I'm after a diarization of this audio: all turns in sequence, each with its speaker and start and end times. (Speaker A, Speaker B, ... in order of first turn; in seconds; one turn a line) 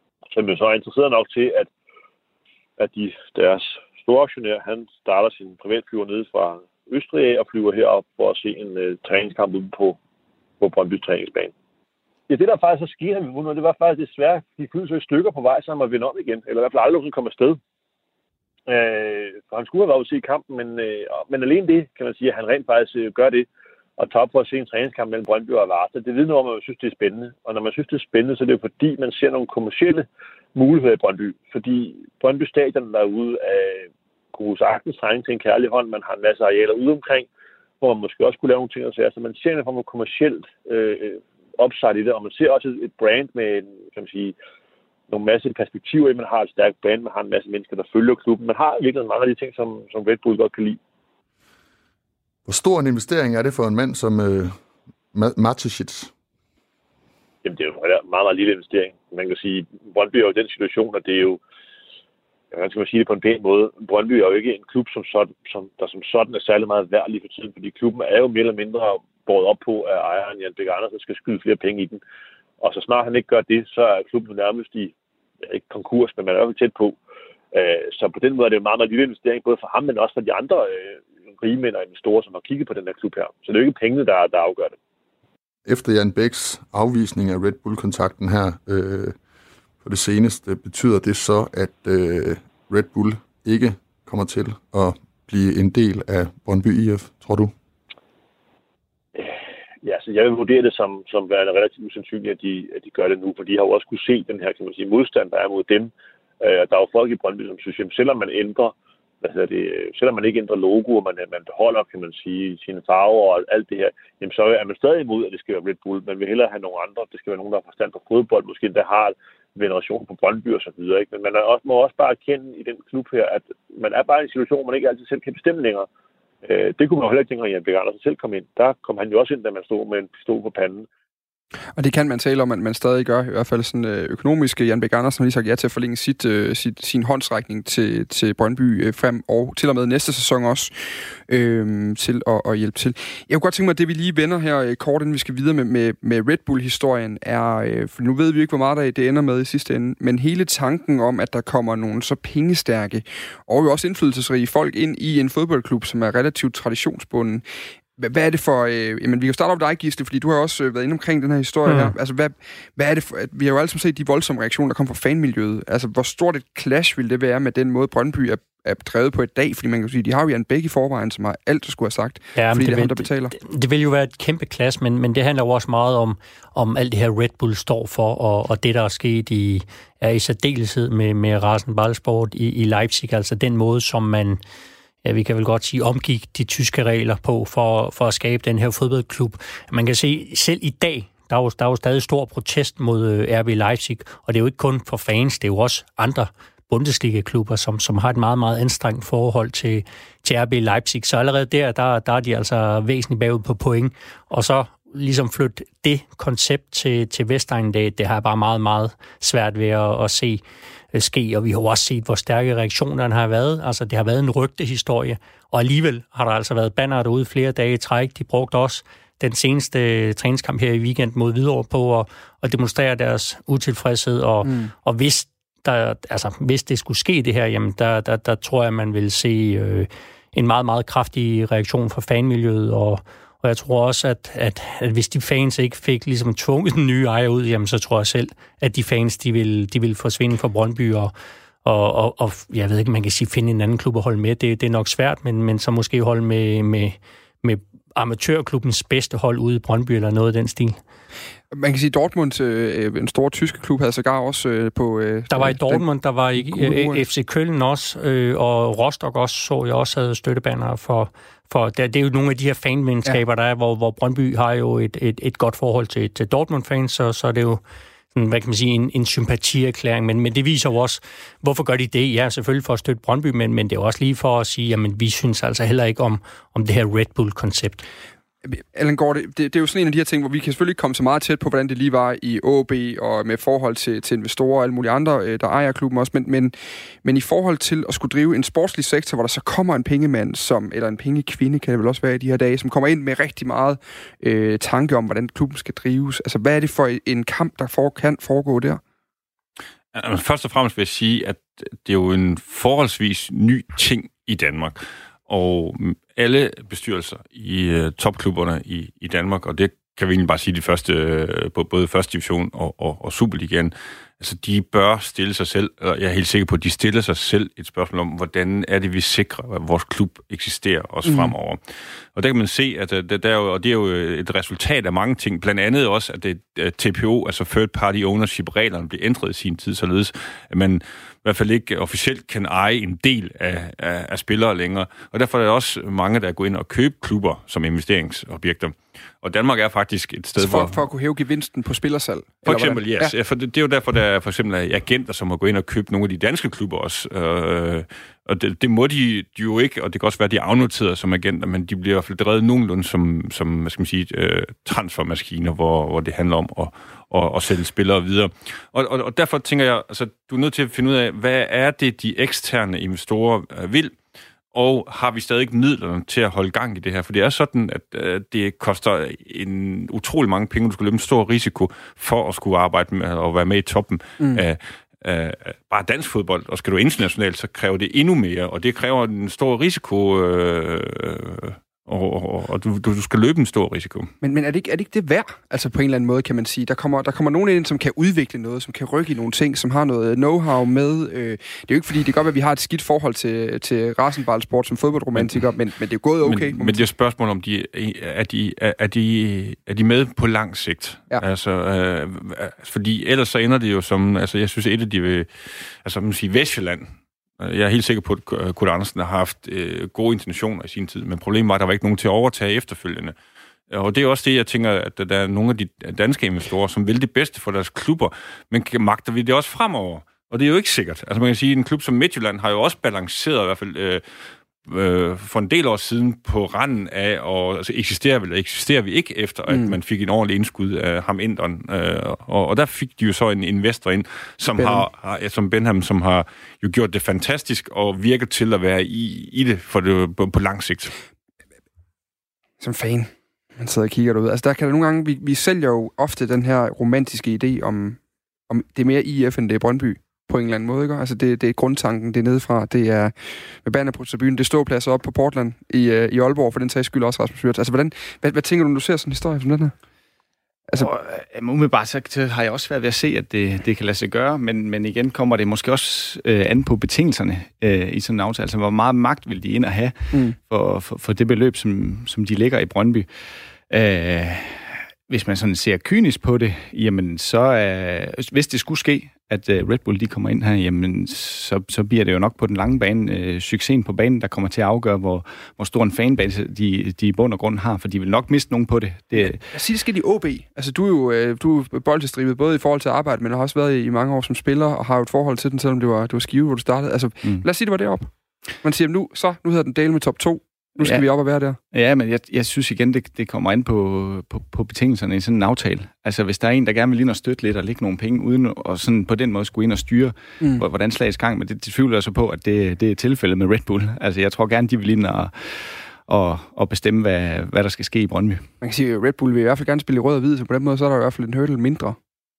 Speaker A: 0.3-1.7
Speaker A: 2.8-10.0
Speaker A: 10.6-11.5
Speaker A: 12.3-17.6
Speaker A: 18.7-23.5
Speaker A: 24.0-37.3
Speaker A: 37.8-44.4
Speaker A: 45.1-50.8
Speaker B: 52.5-54.6
Speaker B: 55.1-56.1
Speaker A: 57.4-61.4
Speaker A: 62.5-72.0
Speaker A: 72.6-74.9
Speaker A: 75.5-77.0
Speaker A: 77.5-84.8
Speaker B: 85.7-89.2
Speaker B: 89.8-97.5
Speaker A: 99.8-125.9
Speaker A: 126.4-130.9
Speaker C: 131.8-140.7
Speaker C: 141.3-157.4
Speaker C: 158.0-173.3
Speaker D: 161.7-161.9
Speaker D: 172.3-184.4
Speaker D: 185.0-210.4
Speaker D: 210.9-241.1
Speaker C: 224.4-224.7
Speaker D: 241.7-250.8
Speaker C: 251.5-257.1
Speaker D: 255.3-267.6
Speaker D: 268.1-277.9
Speaker C: 278.4-298.8
Speaker E: 299.9-321.6
Speaker C: 321.1-321.3
Speaker E: 322.1-340.8
Speaker C: 340.4-343.1
Speaker E: 342.4-363.9
Speaker E: 364.5-384.1
Speaker C: 384.2-396.9
Speaker E: 396.2-413.1
Speaker E: 413.7-424.0
Speaker E: 424.7-440.9
Speaker C: 429.5-429.8
Speaker C: 434.6-434.9
Speaker C: 442.6-459.7
Speaker F: 460.8-473.1
Speaker F: 473.7-489.4
Speaker C: 489.1-498.1
Speaker C: 498.6-501.6
Speaker F: 501.7-518.5
Speaker C: 510.4-510.6
Speaker C: 518.6-522.0